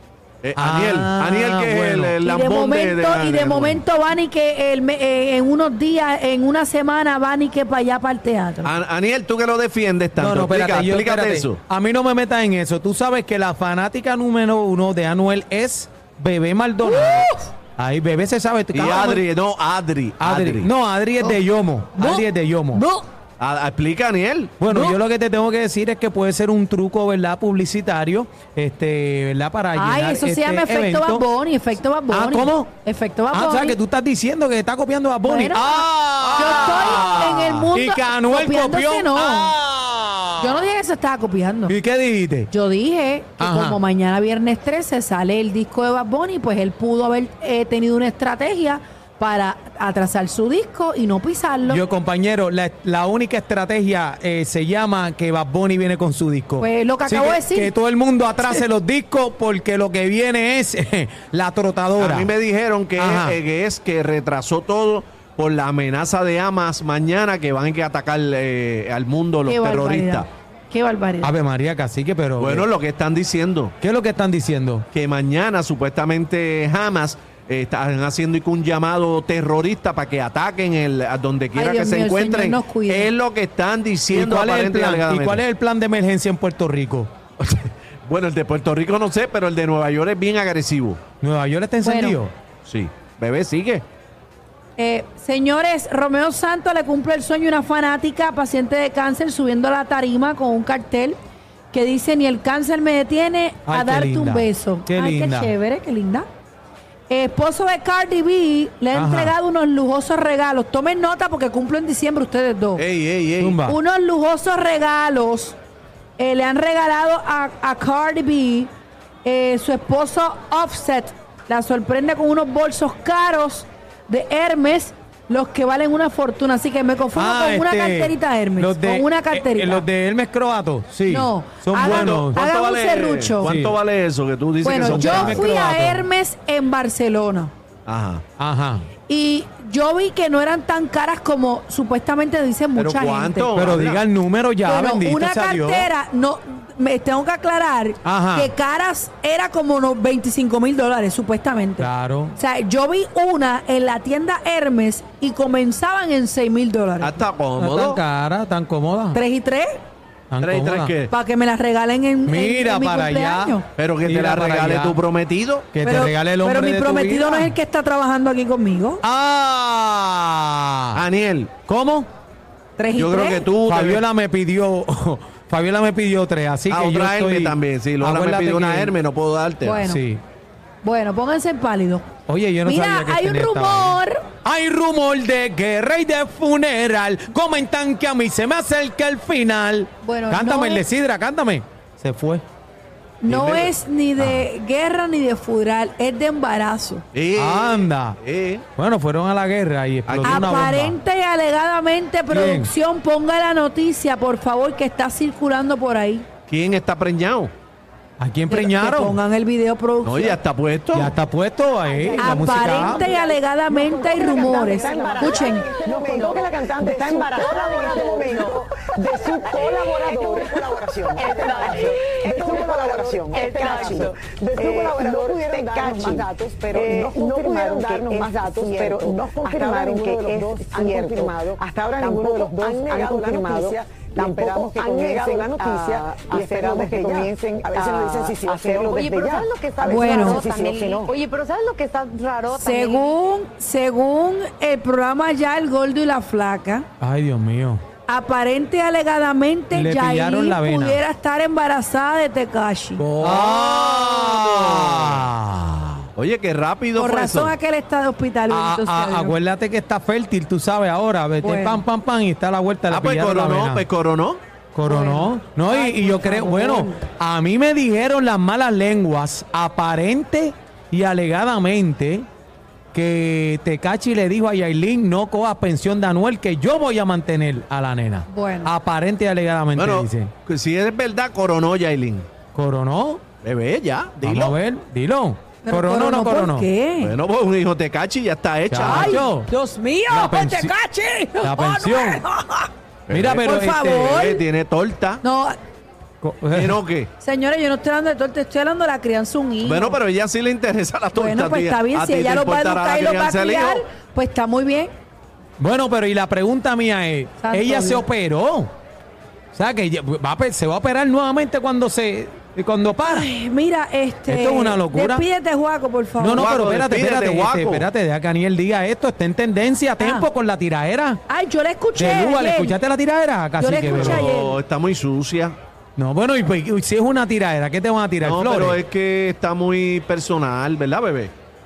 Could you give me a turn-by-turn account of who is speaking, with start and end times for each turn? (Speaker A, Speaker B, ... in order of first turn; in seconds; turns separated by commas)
Speaker A: 0.4-3.8, Speaker B: 0.6-2.2, Speaker C: 2.2-8.7, Speaker A: 8.6-11.6, Speaker B: 10.2-19.3, Speaker C: 16.9-17.4, Speaker A: 18.7-20.7, Speaker B: 20.2-22.8, Speaker C: 22.0-23.1, Speaker A: 23.4-24.6, Speaker B: 24.6-31.2, Speaker C: 24.7-25.0, Speaker C: 29.8-33.8, Speaker B: 32.1-32.7, Speaker B: 33.3-40.7, Speaker C: 35.2-39.6, Speaker A: 36.9-37.2, Speaker C: 40.4-41.8, Speaker B: 41.7-42.5, Speaker C: 42.5-51.8, Speaker B: 43.4-43.8, Speaker B: 51.7-62.3, Speaker C: 56.6-57.7, Speaker A: 62.0-70.3, Speaker B: 63.0-63.4, Speaker C: 69.5-71.3, Speaker B: 71.2-72.7, Speaker A: 72.4-73.7, Speaker B: 73.8-74.9, Speaker A: 74.9-85.4, Speaker C: 81.6-83.1, Speaker B: 84.1-87.1, Speaker A: 87.4-91.0, Speaker B: 91.2-92.3, Speaker C: 91.8-92.2, Speaker A: 92.7-93.8, Speaker C: 94.8-101.2, Speaker C: 101.7-106.3, Speaker B: 103.7-105.5, Speaker C: 107.1-112.8, Speaker B: 108.9-109.3, Speaker A: 112.8-113.6, Speaker B: 113.4-113.8, Speaker C: 113.6-115.5, Speaker C: 116.2-118.7, Speaker C: 119.2-129.9, Speaker B: 127.2-132.4, Speaker C: 131.1-133.5, Speaker A: 131.8-135.5, Speaker B: 133.4-133.8, Speaker C: 134.6-137.5, Speaker B: 134.7-136.1, Speaker A: 137.9-138.2, Speaker B: 138.4-138.8, Speaker C: 139.1-143.6, Speaker A: 142.8-144.0, Speaker B: 143.6-145.9, Speaker C: 144.6-157.2, Speaker B: 148.0-148.5, Speaker B: 151.8-152.4, Speaker A: 157.0-158.0, Speaker B: 157.6-159.2, Speaker C: 159.1-159.8, Speaker B: 160.3-160.9, Speaker A: 160.4-161.1, Speaker C: 161.1-163.7, Speaker B: 162.3-165.0, Speaker A: 163.8-165.7, Speaker B: 165.7-167.5, Speaker C: 165.8-169.0, Speaker B: 169.0-171.0, Speaker A: 170.9-171.5, Speaker B: 171.7-172.1, Speaker C: 172.8-173.5, Speaker A: 173.0-174.1, Speaker B: 173.7-178.9, Speaker A: 176.7-179.8, Speaker C: 179.6-180.0, Speaker B: 179.7-180.2, Speaker C: 180.8-182.1, Speaker B: 182.3-192.4, Speaker C: 182.7-184.2, Speaker C: 190.0-190.8, Speaker C: 193.2-197.0, Speaker A: 193.3-193.7, Speaker B: 194.2-194.5, Speaker A: 197.1-198.7, Speaker B: 197.4-198.2, Speaker B: 198.8-201.0, Speaker A: 200.1-200.6, Speaker C: 200.2-206.3, Speaker B: 202.3-202.7, Speaker A: 206.5-207.5, Speaker B: 208.2-209.2, Speaker C: 208.5-210.4, Speaker A: 210.0-211.1, Speaker B: 210.9-213.1, Speaker D: 211.9-241.2, Speaker C: 212.2-215.7, Speaker E: 212.7-213.4, Speaker E: 214.2-218.7, Speaker E: 219.2-225.2, Speaker E: 225.8-226.2, Speaker E: 226.8-231.3, Speaker E: 232.0-233.8, Speaker E: 234.3-243.1, Speaker C: 239.8-240.5, Speaker C: 242.6-246.9, Speaker B: 247.0-247.8, Speaker C: 248.1-253.1, Speaker B: 249.7-251.0, Speaker A: 253.0-255.3, Speaker B: 253.2-256.1, Speaker A: 256.2-257.5, Speaker C: 257.0-259.4, Speaker B: 258.5-263.9, Speaker C: 261.4-261.8, Speaker A: 262.9-264.4, Speaker B: 264.8-272.3, Speaker C: 264.9-266.9, Speaker B: 272.9-280.3, Speaker C: 278.3-278.7, Speaker A: 279.8-282.3, Speaker B: 282.6-283.2, Speaker A: 283.4-284.6, Speaker B: 284.2-286.7, Speaker C: 285.6-287.1, Speaker A: 287.0-289.3, Speaker B: 288.7-289.5, Speaker C: 288.8-292.7, Speaker B: 290.1-290.7, Speaker B: 291.4-292.2, Speaker A: 293.1-295.2, Speaker B: 293.1-294.2, Speaker C: 293.4-294.4, Speaker C: 295.2-295.6, Speaker B: 296.2-296.8, Speaker A: 296.5-297.1, Speaker C: 297.2-300.0, Speaker A: 299.6-303.8, Speaker C: 301.1-304.9, Speaker B: 305.6-308.7, Speaker C: 307.4-308.1, Speaker B: 309.5-313.3, Speaker C: 313.0-316.5, Speaker B: 314.3-315.2, Speaker B: 316.2-321.2, Speaker A: 316.4-317.9, Speaker C: 320.0-320.3, Speaker C: 321.3-322.8, Speaker B: 322.0-324.3, Speaker C: 323.6-324.6, Speaker A: 323.9-325.6, Speaker B: 326.0-328.8, Speaker A: 328.2-331.3